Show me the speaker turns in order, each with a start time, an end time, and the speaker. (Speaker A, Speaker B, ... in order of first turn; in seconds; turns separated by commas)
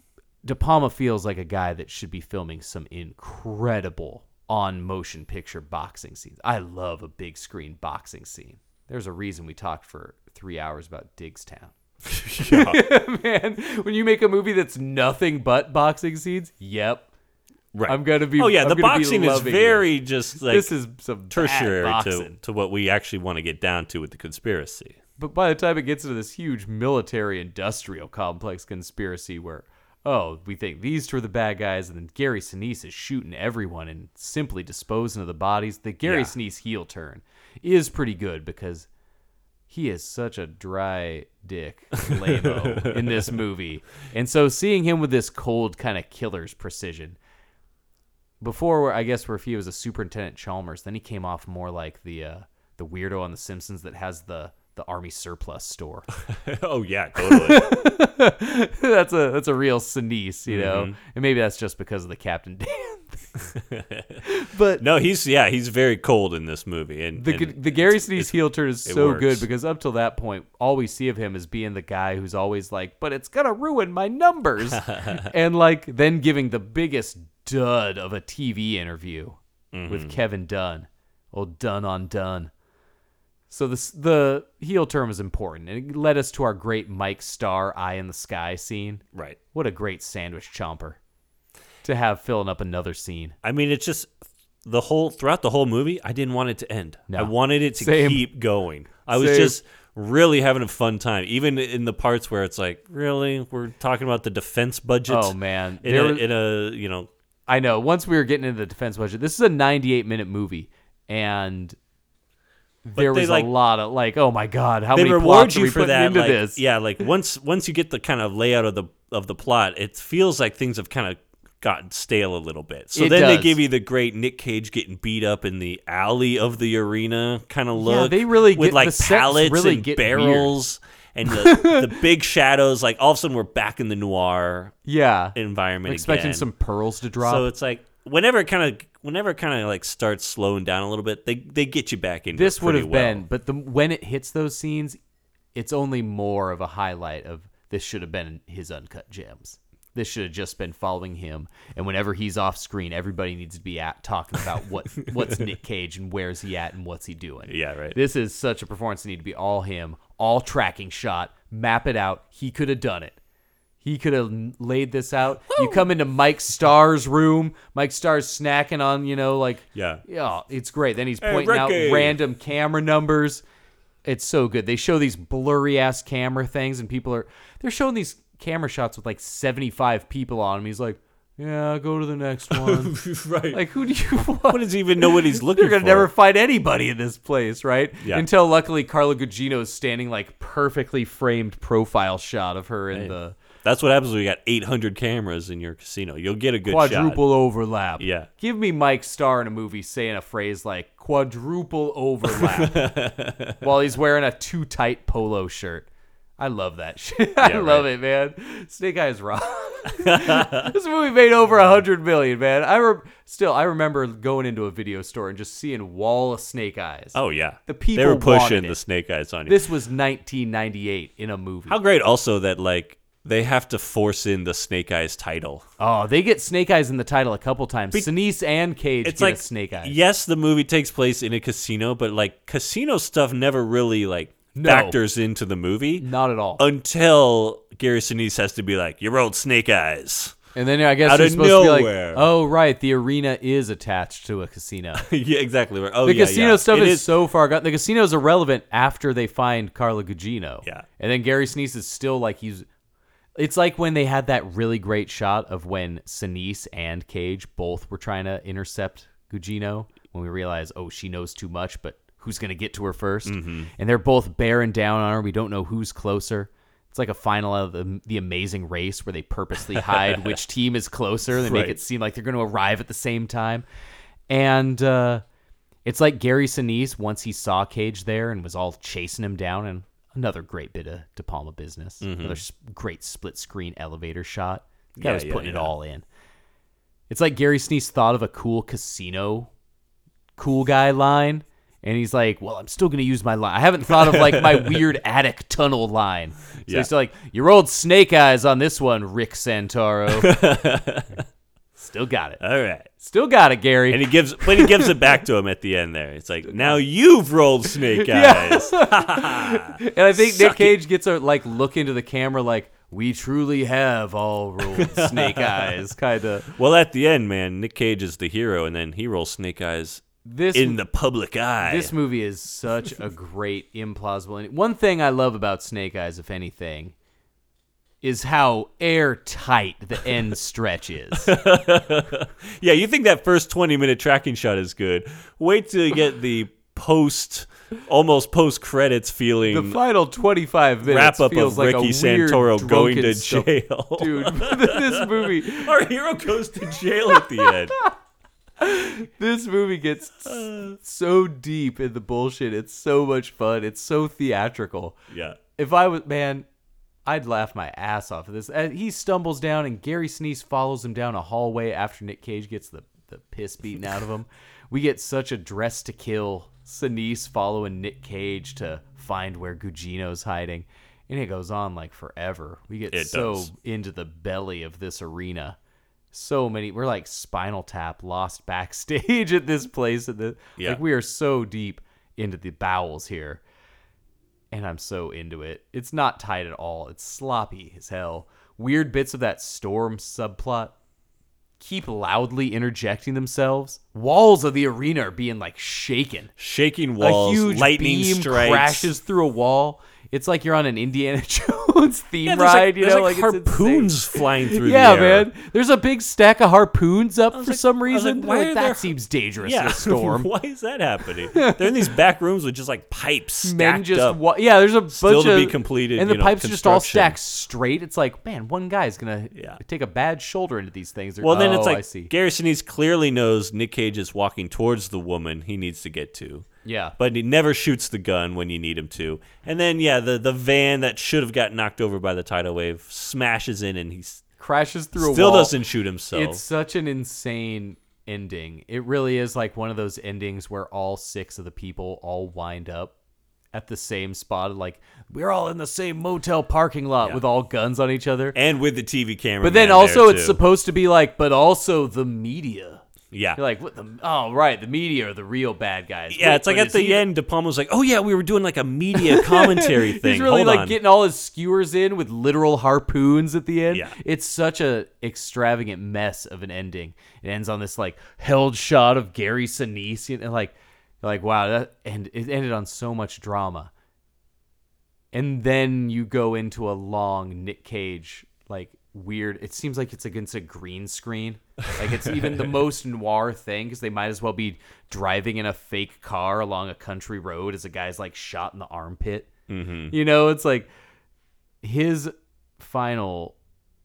Speaker A: 0.4-11.7, Speaker B: 12.1-12.8, Speaker A: 12.4-17.1, Speaker B: 17.7-20.7, Speaker A: 17.9-22.4, Speaker B: 21.3-25.0, Speaker A: 25.2-38.9, Speaker B: 36.0-36.3, Speaker A: 39.7-47.2, Speaker B: 42.2-43.4, Speaker A: 48.4-56.1, Speaker B: 56.2-57.8, Speaker A: 57.2-63.5, Speaker B: 60.5-61.0, Speaker B: 63.5-64.2, Speaker A: 64.2-64.8, Speaker B: 64.8-69.5, Speaker A: 67.2-82.5, Speaker B: 74.7-75.3, Speaker B: 79.7-80.2, Speaker A: 83.5-91.0, Speaker B: 89.1-89.4, Speaker A: 91.8-93.3, Speaker B: 93.4-94.1, Speaker B: 94.6-107.1, Speaker A: 97.1-98.3, Speaker A: 99.1-99.6, Speaker A: 105.1-106.2, Speaker A: 107.5-111.8, Speaker A: 112.8-116.6, Speaker B: 113.0-113.5, Speaker B: 114.9-134.8, Speaker A: 122.9-123.6, Speaker A: 127.8-130.5, Speaker A: 131.3-131.9, Speaker A: 134.8-137.5, Speaker B: 135.3-136.5, Speaker B: 137.2-143.2, Speaker A: 142.3-145.0, Speaker A: 145.5-163.2, Speaker B: 157.5-158.0, Speaker A: 163.8-173.4, Speaker B: 165.5-165.8, Speaker B: 169.7-170.0, Speaker B: 171.2-172.2, Speaker A: 174.0-183.0, Speaker B: 182.5-183.6, Speaker A: 183.5-193.4, Speaker B: 184.5-186.1, Speaker B: 188.0-188.2, Speaker B: 192.9-197.2, Speaker A: 196.6-202.9, Speaker B: 198.0-198.3, Speaker B: 202.2-203.6, Speaker A: 203.6-205.9, Speaker A: 206.4-218.8, Speaker B: 207.4-207.9, Speaker B: 210.0-210.7, Speaker B: 217.1-219.6, Speaker A: 219.5-221.8, Speaker B: 221.7-225.7, Speaker A: 225.8-229.9, Speaker B: 229.0-240.4, Speaker A: 234.5-235.0, Speaker A: 236.0-236.6, Speaker A: 240.5-245.0, Speaker B: 241.0-242.3, Speaker B: 244.9-247.1, Speaker A: 246.0-252.7, Speaker A: 253.3-273.6, Speaker B: 263.2-263.7, Speaker B: 269.8-270.4, Speaker B: 271.3-271.8, Speaker A: 274.3-275.2, Speaker A: 275.8-286.0, Speaker B: 282.0-282.4, Speaker B: 284.9-285.7, Speaker A: 287.1-289.5, Speaker A: 290.4-300.3, Speaker B: 294.0-294.8, Speaker B: 300.1-301.2, Speaker A: 301.8-302.4, Speaker B: 302.4-302.9, Speaker A: 303.0-305.1, Speaker B: 303.9-310.8, Speaker A: 306.5-306.8, Speaker A: 307.9-316.5, Speaker B: 314.7-315.8, Speaker B: 316.6-321.9, Speaker A: 320.2-320.8, Speaker A: 321.6-326.9, Speaker A: 328.0-331.3, Speaker B: 331.1-339.8, Speaker A: 339.5-345.7, Speaker B: 340.8-347.8, Speaker A: 348.6-354.9, Speaker B: 350.2-350.8, Speaker B: 355.1-355.4, Speaker A: 355.6-356.4, Speaker A: 357.1-375.6, Speaker B: 372.9-373.5, Speaker A: 376.1-383.4, Speaker A: 384.5-390.7, Speaker A: 391.6-396.3, Speaker B: 396.4-398.9, Speaker A: 397.0-410.3, Speaker B: 402.2-405.3, Speaker B: 407.3-414.2, Speaker A: 411.3-411.7, Speaker A: 413.4-422.1, Speaker B: 414.9-417.2, Speaker B: 419.3-419.6, Speaker B: 421.2-426.5, Speaker A: 426.6-426.9, Speaker B: 427.0-434.2, Speaker A: 434.4-435.5, Speaker B: 434.9-436.4, Speaker A: 436.1-442.9, Speaker A: 443.5-448.4, Speaker B: 448.3-450.4, Speaker A: 449.4-452.8, Speaker B: 453.1-453.4, Speaker A: 453.4-457.1, Speaker B: 456.1-460.8, Speaker A: 459.1-473.7, Speaker B: 463.7-463.9, Speaker A: 475.1-489.3, Speaker B: 481.8-482.4, Speaker B: 489.5-489.9, Speaker A: 489.9-490.7, Speaker A: 491.6-493.4